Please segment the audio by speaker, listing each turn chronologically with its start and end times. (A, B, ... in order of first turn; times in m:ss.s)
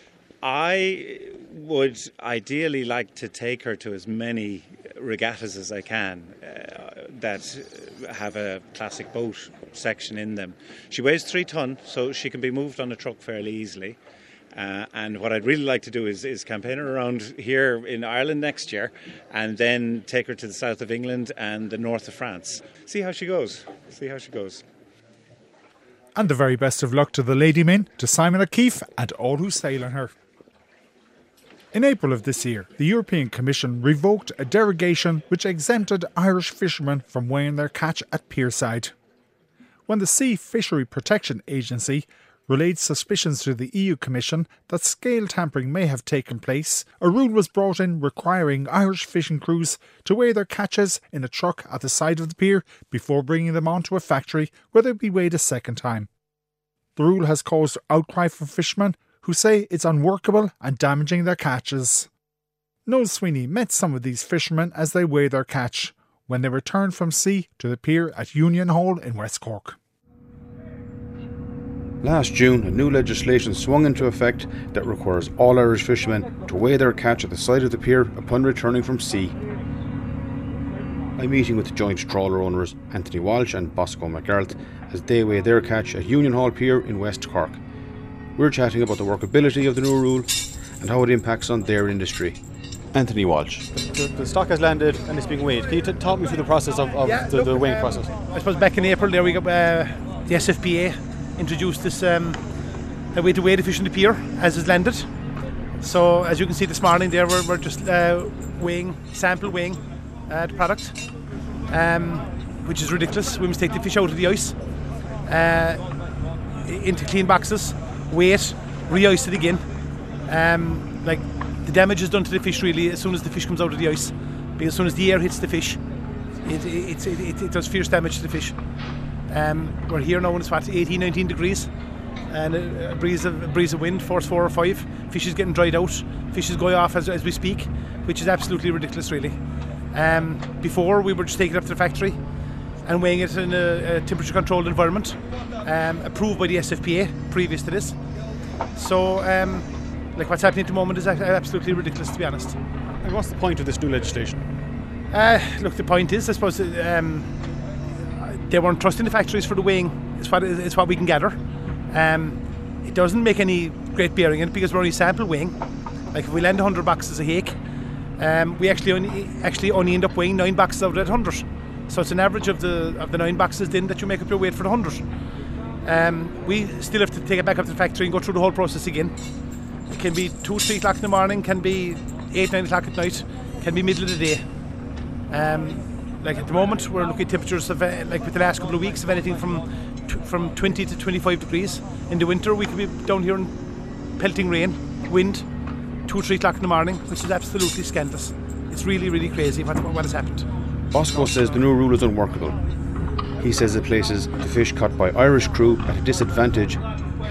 0:00.4-0:14.0 A
0:14.5-0:24.6 A
0:26.1-0:30.1 B
0:31.7-0:38.9 B
0:39.9-0:56.1 B
0:57.0-1:02.1 B
1:02.8-1:09.8 B
1:12.0-1:19.4 C
1:21.2-1:27.6 C
1:28.4-1:32.4 C
1:32.9-1:33.7 C
1:33.7-1:38.2 D
1:37.1-1:42.4 E
1:43.1-1:45.1 E
1:45.8-1:51.0 E
1:51.7-1:54.6 E
1:55.2-1:55.9 E
1:56.6-1:59.6 E
2:00.2-2:05.8 E
2:06.4-2:08.6 E
2:09.3-2:11.7 E
2:12.3-2:19.4 E
2:19.9-2:22.2 E
2:22.8-2:28.0 E
2:28.7-2:32.6 E
2:33.0-2:34.4 D
2:35.1-2:37.4 E
2:38.2-2:45.6 E
2:46.1-2:47.6 E
2:48.2-2:55.1 E
2:55.8-2:59.1 E
2:59.9-3:04.4 E
3:05.3-3:13.5 E
3:14.2-3:15.5 E
3:16.0-3:20.5 E
3:20.9-3:22.6 C
3:23.4-3:26.8 C